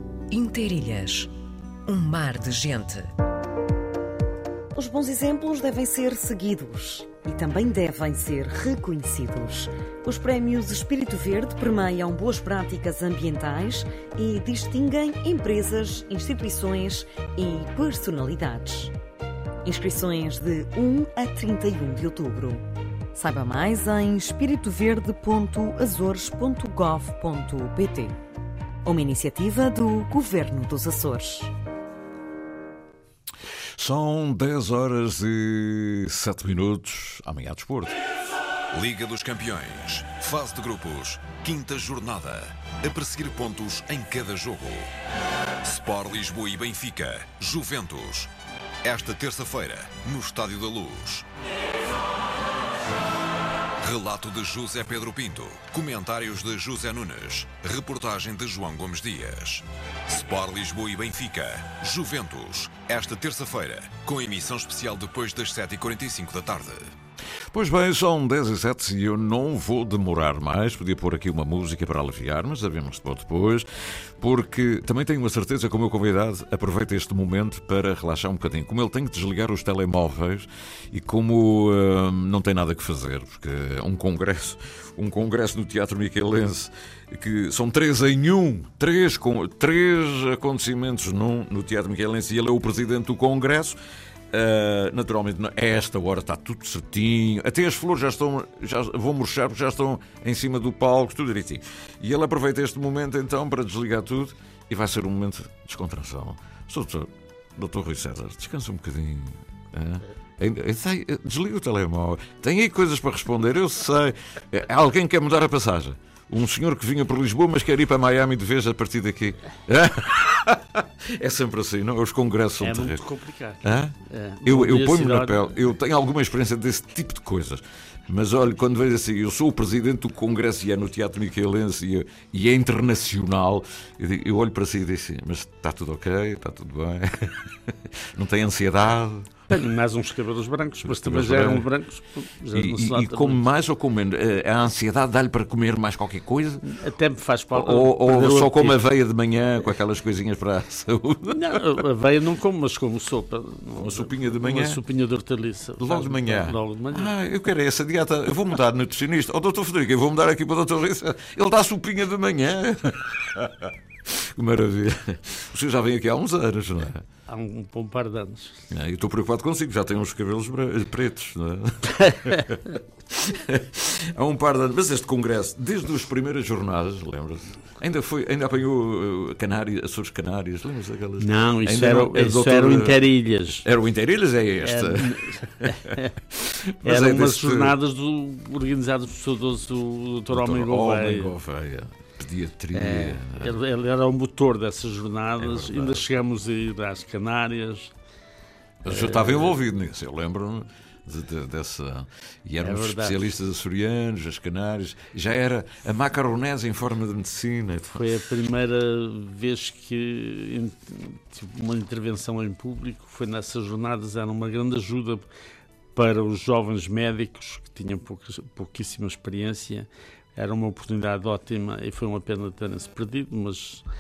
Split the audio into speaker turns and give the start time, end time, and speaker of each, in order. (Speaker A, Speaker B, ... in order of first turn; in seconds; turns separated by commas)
Speaker A: 0.3-1.3, Speaker A: 1.9-3.1, Speaker B: 4.7-18.9, Speaker B: 19.6-28.1, Speaker B: 28.8-31.5, Speaker C: 33.8-37.9, Speaker D: 38.7-44.9, Speaker D: 45.6-48.3, Speaker D: 48.8-51.3, Speaker D: 53.8-66.9, Speaker C: 67.5-93.8, Speaker C: 94.3-123.0, Speaker E: 122.6-125.4, Speaker C: 123.6-139.5, Speaker E: 139.5-143.4, Speaker C: 140.8-141.7, Speaker C: 142.5-146.6, Speaker E: 146.6-148.8, Speaker C: 147.5-151.6, Speaker E: 151.3-157.1, Speaker C: 153.7-154.8, Speaker C: 155.8-167.0, Speaker E: 167.3-168.6, Speaker C: 168.7-183.0, Speaker E: 171.9-172.4, Speaker E: 181.2-183.6, Speaker C: 183.6-187.7, Speaker E: 184.6-186.1, Speaker E: 186.8-191.3, Speaker C: 190.3-193.5, Speaker E: 192.7-197.9, Speaker C: 195.4-196.0, Speaker C: 198.8-208.2, Speaker E: 198.9-199.6, Speaker E: 202.6-203.3, Speaker E: 207.9-215.3, Speaker E: 215.9-223.8